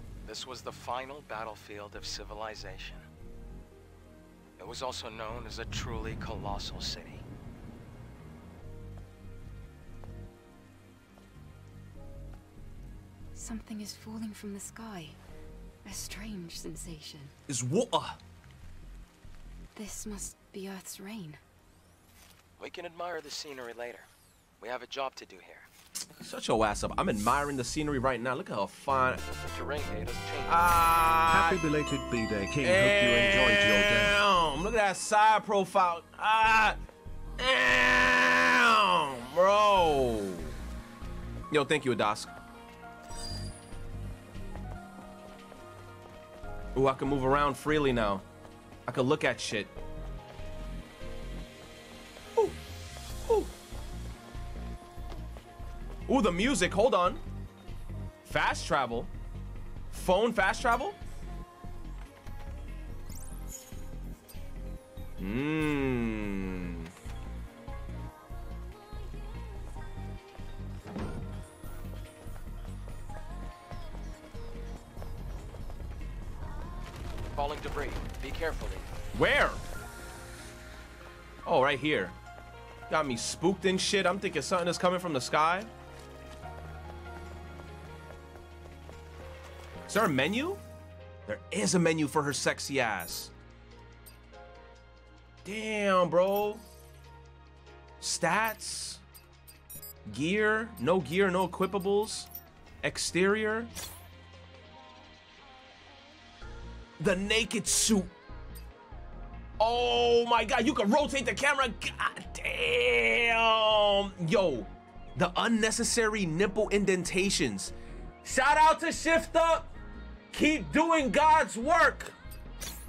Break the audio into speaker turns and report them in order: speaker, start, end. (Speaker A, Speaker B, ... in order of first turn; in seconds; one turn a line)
Speaker A: 0.2-3.0
Speaker A: 4.6-7.2
Speaker B: 13.3-15.2
Speaker B: 15.8-17.3
Speaker C: 17.5-18.2
Speaker B: 19.7-21.4
Speaker A: 22.6-24.1
Speaker A: 24.6-25.7
Speaker C: 26.2-29.2
Speaker A: 29.4-30.8
Speaker C: 30.4-31.6
Speaker D: 31.3-34.2
Speaker C: 32.6-36.8
Speaker C: 37.4-40.5
Speaker C: 41.5-42.3
Speaker C: 46.7-48.2
Speaker C: 48.9-49.7
Speaker C: 56.1-57.2
Speaker C: 58.2-59.1
Speaker C: 59.9-61.0
Speaker C: 65.2-66.9
Speaker A: 77.3-78.9
Speaker C: 79.1-79.6
Speaker C: 81.4-82.2
Speaker C: 82.9-85.7
Speaker C: 89.9-90.6
Speaker C: 91.3-93.3
Speaker C: 95.4-96.6
Speaker C: 98.0-99.0
Speaker C: 100.0-102.3
Speaker C: 102.8-103.7
Speaker C: 107.0-108.1
Speaker C: 109.6-117.7
Speaker C: 118.2-119.7
Speaker C: 120.3-122.1